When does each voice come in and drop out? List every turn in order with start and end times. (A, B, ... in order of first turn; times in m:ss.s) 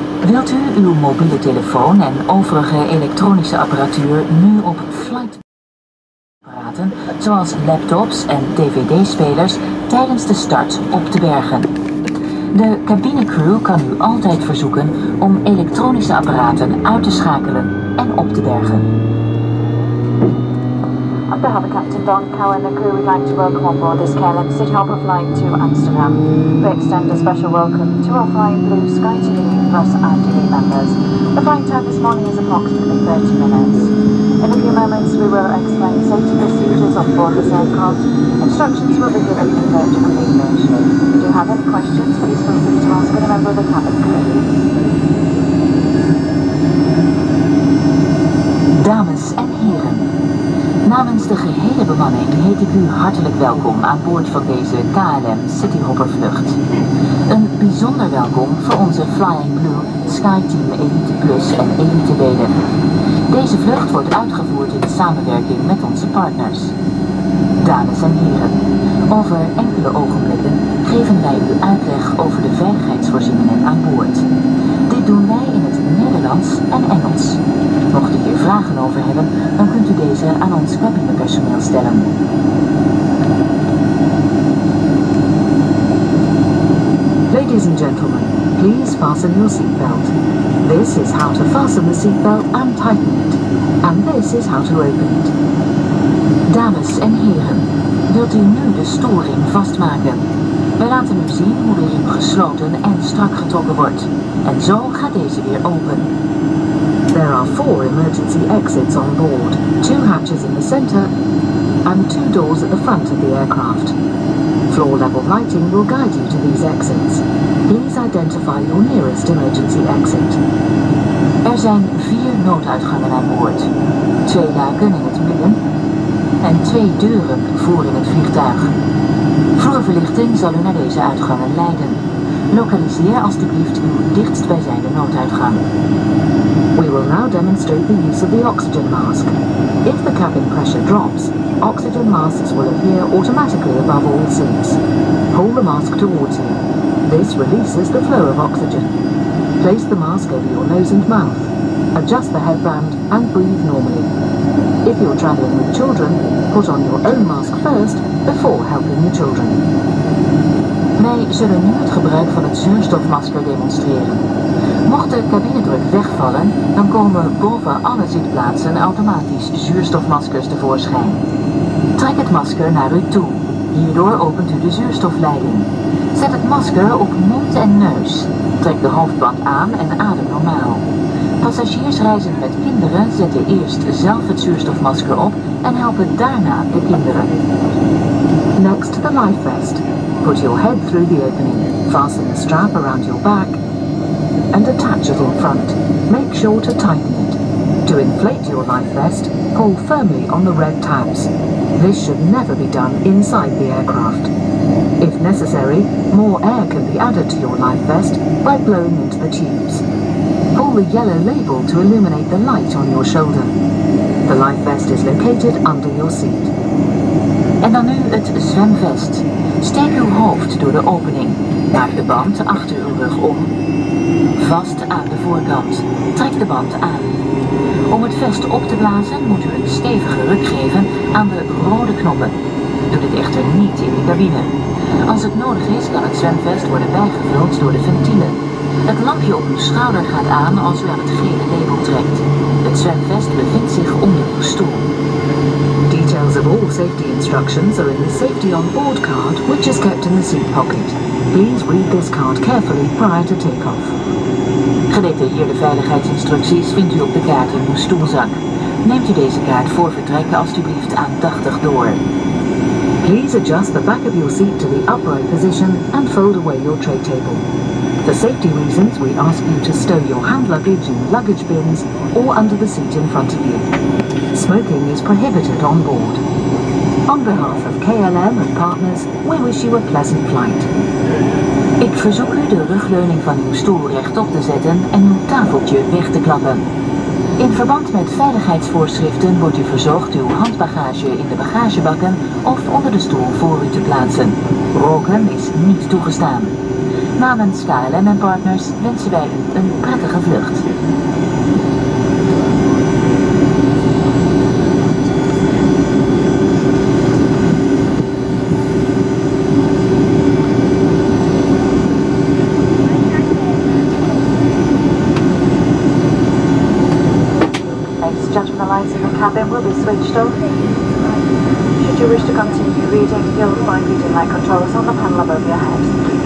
0:00.2-0:05.4 A
0:06.4-0:11.7 A
0:12.5-0:18.9 A
0:21.3-0:44.4 B
0:48.8-0:50.1 A
0:50.8-0:56.6 A
0:57.3-1:02.6 A
1:03.3-1:06.7 A
1:07.6-1:14.3 A
1:14.9-1:22.1 A
1:27.3-1:35.3 C
1:36.5-1:40.2 A
1:40.8-1:46.1 A
1:47.1-1:51.1 C
1:51.8-1:53.9 C
1:54.7-2:00.4 C
2:01.4-2:03.7 A
2:04.2-2:05.6 A
2:06.4-2:08.7 A
2:09.5-2:15.6 A
2:16.7-2:24.8 C
2:25.3-2:28.9 C
2:29.6-2:34.1 C
2:34.8-2:39.6 C
2:41.0-2:44.2 A
2:44.8-2:51.2 A
2:52.0-3:00.8 A
3:01.4-3:07.3 A
3:08.6-3:13.6 C
3:14.5-3:24.3 C
3:25.0-3:29.8 C
3:30.5-3:33.5 C
3:34.2-3:36.5 C
3:37.6-3:43.5 A
3:44.4-3:47.1 A
3:47.9-3:52.4 A
3:52.9-3:54.5 A
3:55.0-4:04.8 A
4:05.9-4:13.9 C
4:14.9-4:22.0 A
4:23.0-4:27.4 C
4:28.0-4:33.7 C
4:34.3-4:36.2 C
4:37.1-4:40.7 C
4:41.8-4:46.6 A
4:47.4-4:56.5 A
4:57.2-5:00.6 A
5:18.0-5:20.4 B
5:21.8-5:26.1 B